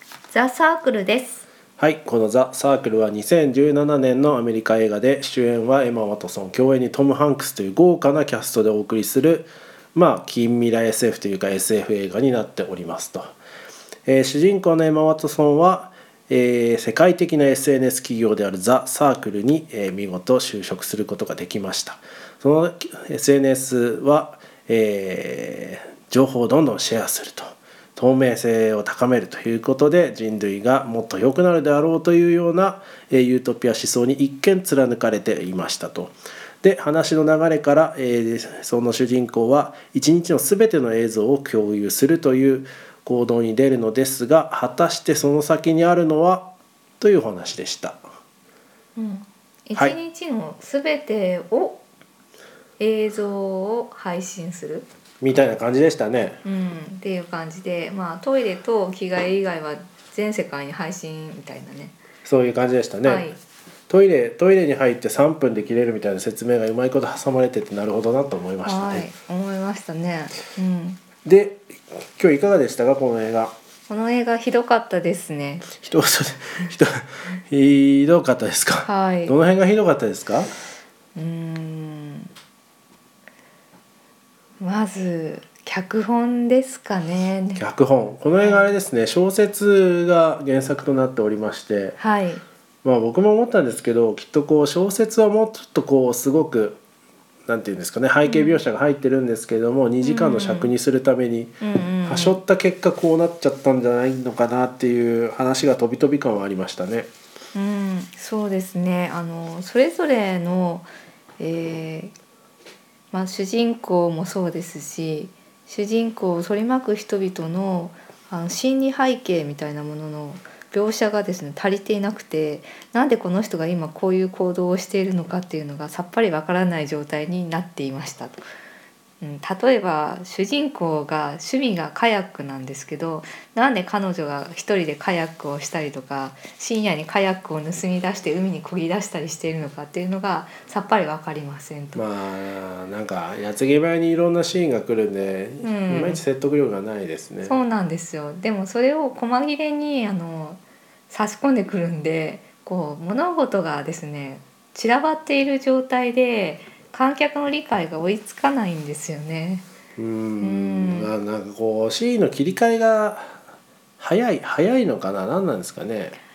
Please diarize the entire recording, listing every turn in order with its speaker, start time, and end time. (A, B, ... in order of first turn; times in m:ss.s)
0:00.3-0:01.4 A
0:01.8-0:13.3 B
0:14.1-0:46.5 B
0:47.0-0:48.0 B
0:49.0-0:51.8 A
0:52.8-0:54.9 A
0:55.2-0:56.4 B
0:56.4-1:02.0 A
1:02.2-1:03.3 B
1:03.0-1:03.4 A
1:03.9-1:09.1 B
1:08.6-1:11.0 A
1:11.2-1:13.5 B
1:13.9-1:15.7 A
1:15.8-1:20.5 B
1:18.8-1:19.4 A
1:21.2-1:22.3 A
1:24.6-1:27.6 A
1:27.6-1:32.0 B
1:28.4-1:28.7 A
1:32.0-1:32.4 A
1:32.8-1:36.8 B
1:37.5-1:47.1 B
1:38.2-1:38.6 A
1:40.0-1:40.7 A
1:41.6-1:42.4 A
1:47.6-1:52.2 A
1:53.1-2:08.4 A
2:09.2-2:22.0 A
2:22.0-2:27.6 B
2:25.6-2:26.2 A
2:27.5-2:39.7 A
2:40.0-2:43.4 B
2:40.4-2:41.1 A
2:44.0-2:46.2 B